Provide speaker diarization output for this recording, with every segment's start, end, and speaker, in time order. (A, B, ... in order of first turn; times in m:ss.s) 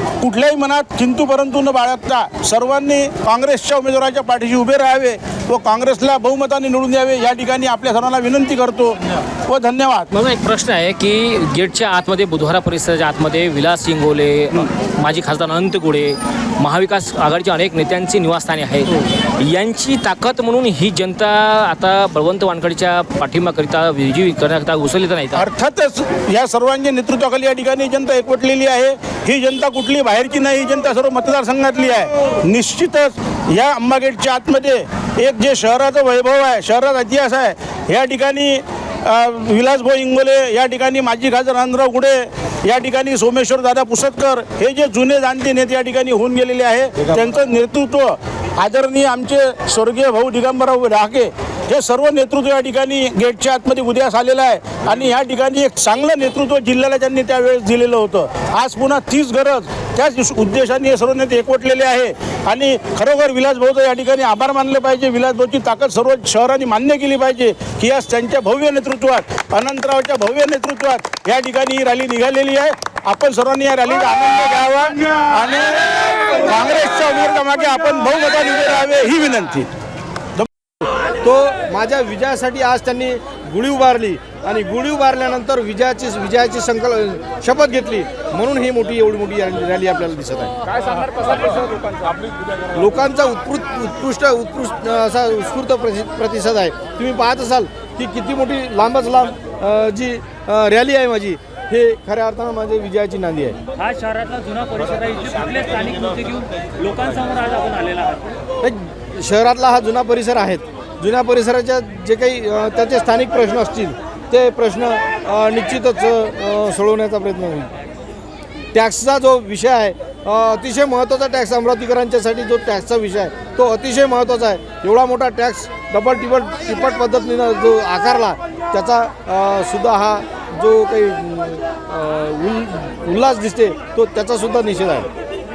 0:00.2-0:10.1 A
0:10.1-0:25.4 B
0:25.3-1:15.8 A
1:16.4-1:19.7 A
1:21.2-1:30.5 C
1:31.2-1:31.6 C
1:32.7-1:43.6 C
1:44.1-1:48.2 D
1:48.6-1:57.7 C
1:58.7-2:15.1 C